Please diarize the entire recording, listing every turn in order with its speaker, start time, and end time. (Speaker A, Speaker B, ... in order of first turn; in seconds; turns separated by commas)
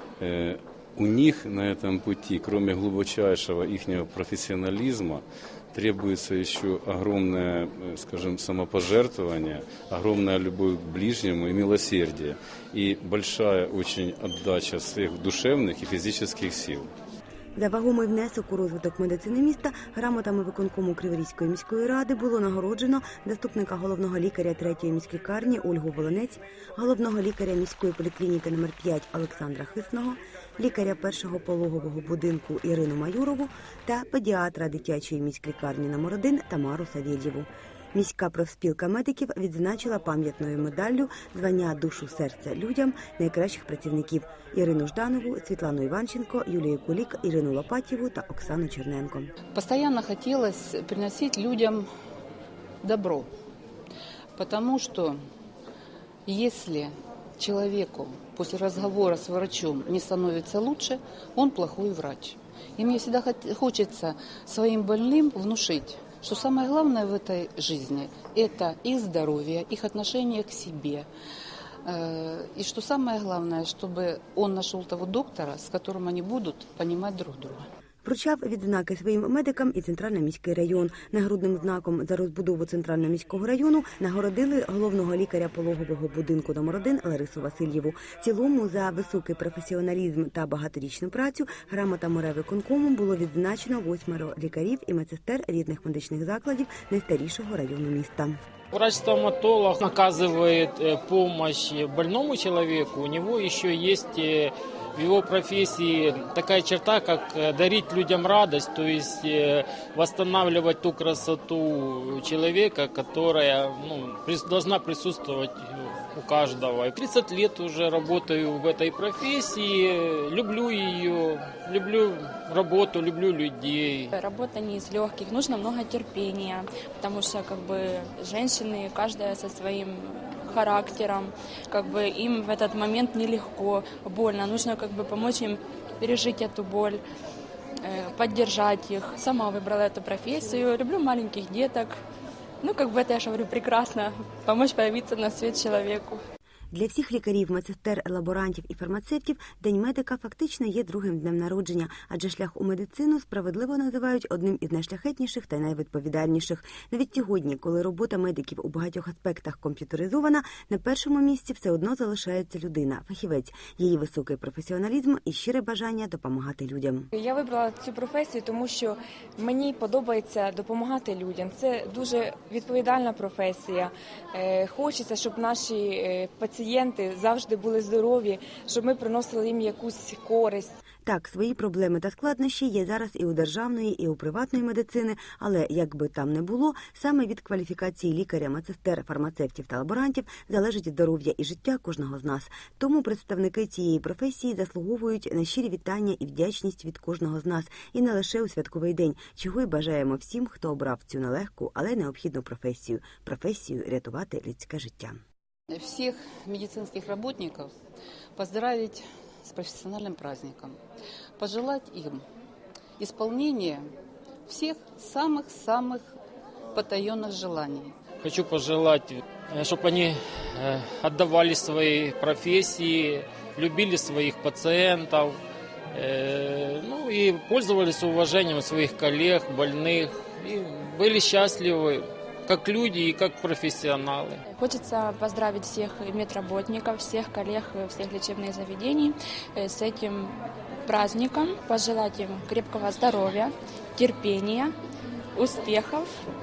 Speaker A: 0.2-16.9, Speaker B: 17.6-49.3, Speaker C: 49.5-51.9, Speaker C: 52.8-53.3, Speaker C: 54.4-55.2, Speaker C: 56.3-71.1, Speaker C: 71.8-77.7, Speaker B: 78.0-98.4, Speaker D: 98.7-124.1, Speaker E: 124.2-137.0, Speaker E: 137.8-141.9, Speaker E: 142.6-146.2, Speaker B: 146.7-167.1, Speaker F: 167.2-180.7, Speaker B: 181.1-205.2, Speaker C: 205.7-207.7, Speaker C: 208.4-210.8, Speaker C: 211.4-212.2, Speaker C: 213.0-213.9, Speaker C: 214.5-216.2, Speaker C: 216.7-218.0, Speaker D: 218.2-225.4, Speaker D: 225.9-234.4, Speaker E: 234.5-240.3, Speaker E: 240.9-244.7, Speaker E: 245.3-246.1